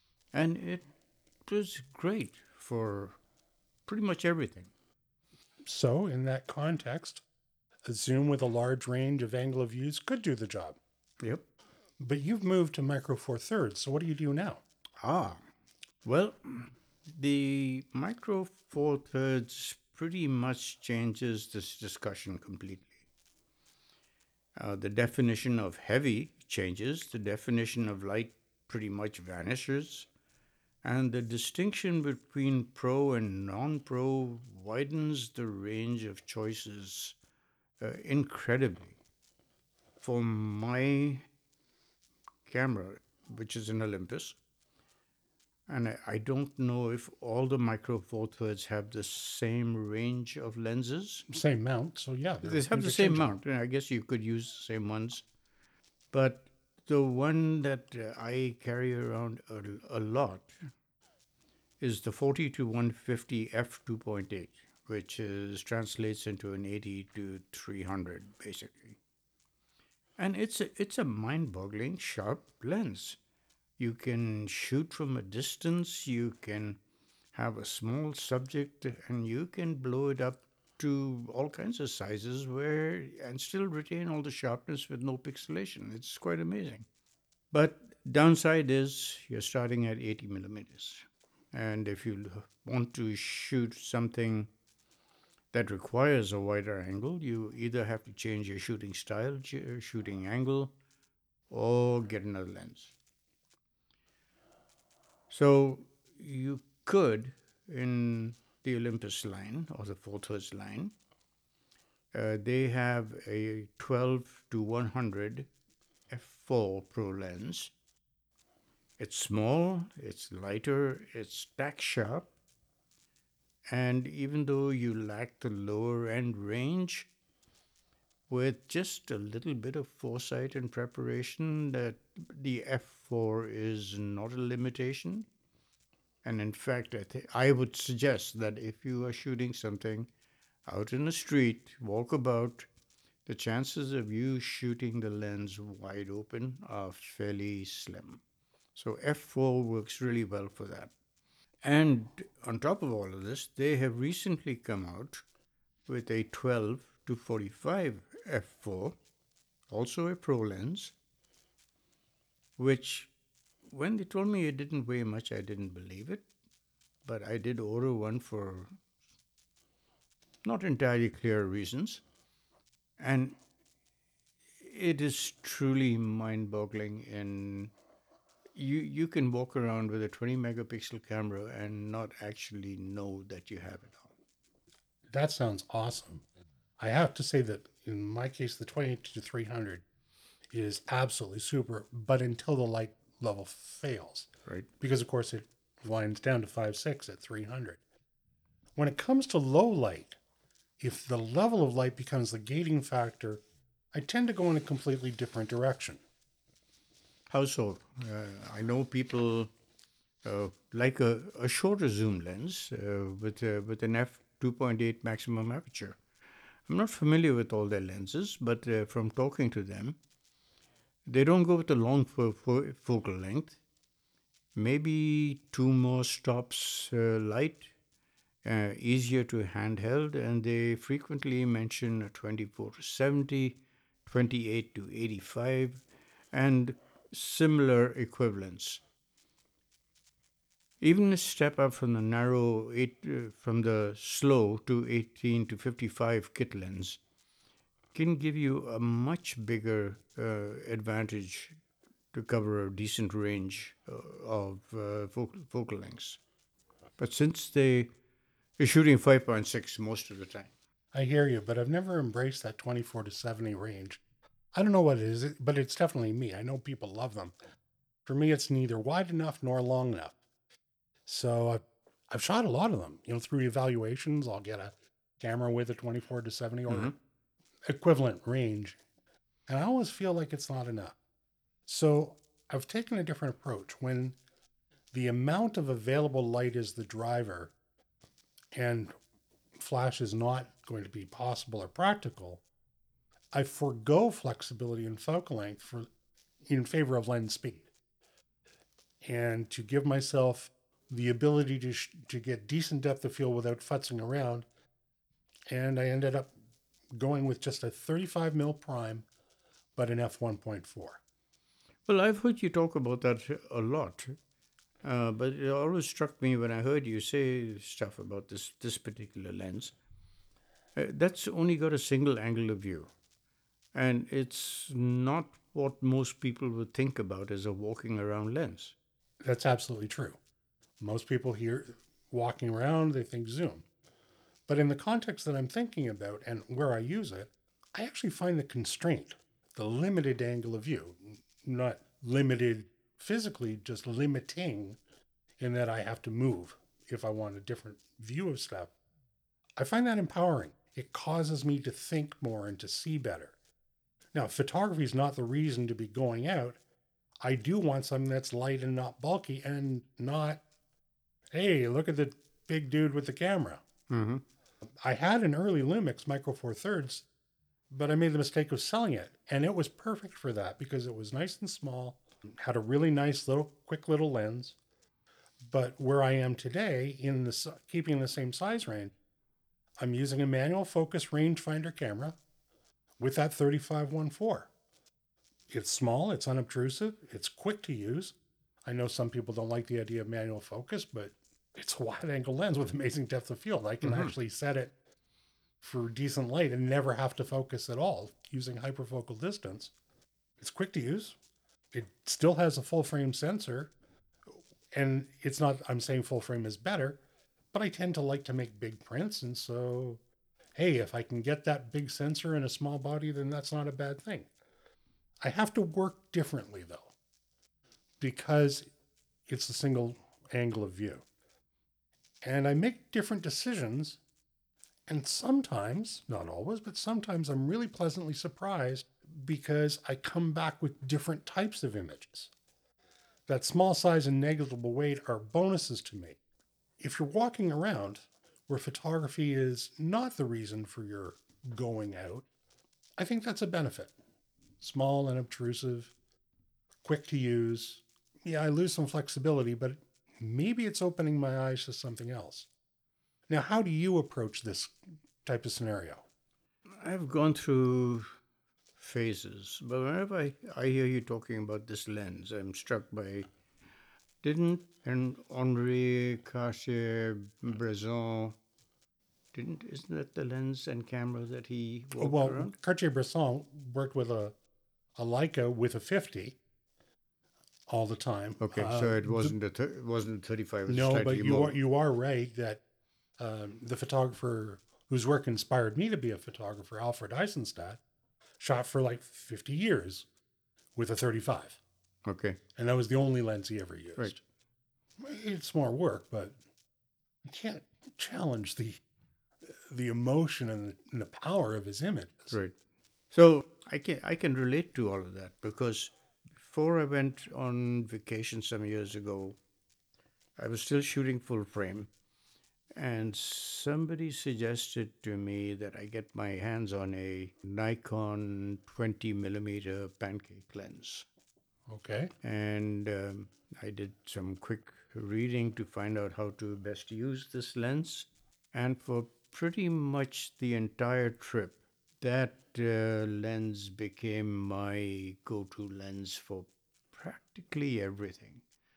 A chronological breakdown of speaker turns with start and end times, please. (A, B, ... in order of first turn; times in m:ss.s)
0:00.3-0:00.8 A
0:01.5-0:03.2 A
0:03.8-0:04.7 A
0:05.6-0:07.2 B
0:07.8-0:10.8 B
0:12.0-0:14.6 B
0:15.0-0:15.4 A
0:16.0-0:23.0 A
0:24.6-0:30.1 A
0:30.8-0:37.2 A
0:37.8-0:39.0 A
0:40.0-0:41.2 A
0:42.4-0:44.4 A
0:45.7-0:51.2 A
0:51.3-0:53.4 B
0:52.4-0:55.2 A
0:56.1-1:00.6 A
1:01.8-1:09.0 A
1:10.2-1:13.2 A
1:13.8-1:16.8 A
1:17.3-1:26.8 A
1:27.5-1:34.5 A
1:35.5-1:40.7 A
1:41.5-1:42.9 A
1:45.3-1:50.9 A
1:52.1-1:55.5 A
1:56.1-1:57.7 A
1:59.0-2:02.3 A
2:03.7-2:07.1 A
2:08.3-2:15.2 A
2:16.2-2:20.1 A
2:20.7-2:22.7 A
2:23.2-2:28.2 A
2:28.7-2:30.9 A
2:31.6-2:35.2 A
2:35.9-2:39.0 A
2:39.7-2:40.9 A
2:42.6-2:43.1 A
2:43.7-2:46.2 A
2:47.0-2:48.7 A
2:50.4-2:52.0 A
2:53.0-2:53.4 A
2:54.6-2:57.7 A
2:58.5-3:04.1 A
3:05.1-3:06.2 B
3:06.8-3:09.8 B
3:10.5-3:14.3 B
3:14.8-3:17.8 B
3:18.8-3:20.2 B
3:20.8-3:23.4 B
3:23.9-3:26.0 B
3:27.3-3:29.5 A
3:30.2-3:36.0 A
3:36.7-3:40.0 A
3:41.0-3:43.6 A
3:44.5-3:47.7 A
3:48.4-3:58.8 A
4:00.8-4:07.0 A
4:07.9-4:11.5 A
4:12.1-4:16.2 A
4:17.0-4:17.9 A
4:18.6-4:20.5 A
4:20.9-4:24.0 B
4:24.5-4:27.3 B
4:28.0-4:30.2 B
4:31.0-4:36.9 B
4:36.7-4:36.9 A
4:37.7-4:38.8 B
4:39.5-4:41.0 B
4:41.7-4:44.2 B
4:44.9-4:47.5 B
4:48.5-4:48.9 B
4:49.6-4:52.4 B
4:53.3-4:55.9 B
4:56.4-4:57.7 B
4:59.0-5:04.5 B
5:05.5-5:06.3 B
5:07.0-5:09.0 B
5:09.8-5:11.0 B
5:11.9-5:14.2 A
5:14.8-5:19.7 A
5:20.8-5:22.9 A
5:23.7-5:28.8 A
5:29.2-5:30.2 B
5:30.8-5:33.6 B
5:34.5-5:44.8 B
5:45.4-5:48.7 B
5:49.6-5:53.3 B
5:54.1-5:56.6 B
5:57.2-6:00.4 B
6:01.3-6:03.6 B
6:03.9-6:04.2 A
6:04.8-6:07.1 B
6:07.7-6:14.6 B
6:15.5-6:18.9 B
6:19.8-6:22.2 B
6:23.0-6:24.5 B
6:25.5-6:34.7 B
6:33.8-6:34.1 A
6:35.6-6:39.7 B
6:40.4-6:41.2 B
6:41.7-6:43.7 B
6:44.7-6:47.0 B
6:47.5-6:50.0 B
6:50.5-6:54.3 B
6:55.2-6:56.9 B
6:58.0-6:58.7 B
6:59.3-7:01.0 B
7:02.2-7:04.0 B
7:04.9-7:12.3 B
7:13.3-7:16.2 B
7:16.8-7:22.3 B
7:23.0-7:23.9 B
7:24.6-7:25.9 B
7:26.8-7:32.5 B
7:33.3-7:36.0 B
7:36.8-7:38.1 A
7:38.8-7:43.3 A
7:44.2-7:48.4 A
7:49.3-7:52.5 A
7:52.0-7:54.4 B
7:55.0-7:56.4 B
7:57.7-7:59.4 B
7:58.4-8:01.6 A
8:00.7-8:02.6 B
8:03.2-8:07.8 B
8:08.4-8:10.0 B
8:10.8-8:11.6 B
8:12.0-8:12.4 A
8:12.6-8:14.2 B
8:15.0-8:16.4 B
8:17.3-8:18.8 B
8:19.5-8:22.3 B
8:23.1-8:29.4 A
8:30.4-8:31.9 A
8:32.8-8:41.1 A
8:41.7-8:42.1 B
8:42.2-8:58.4 A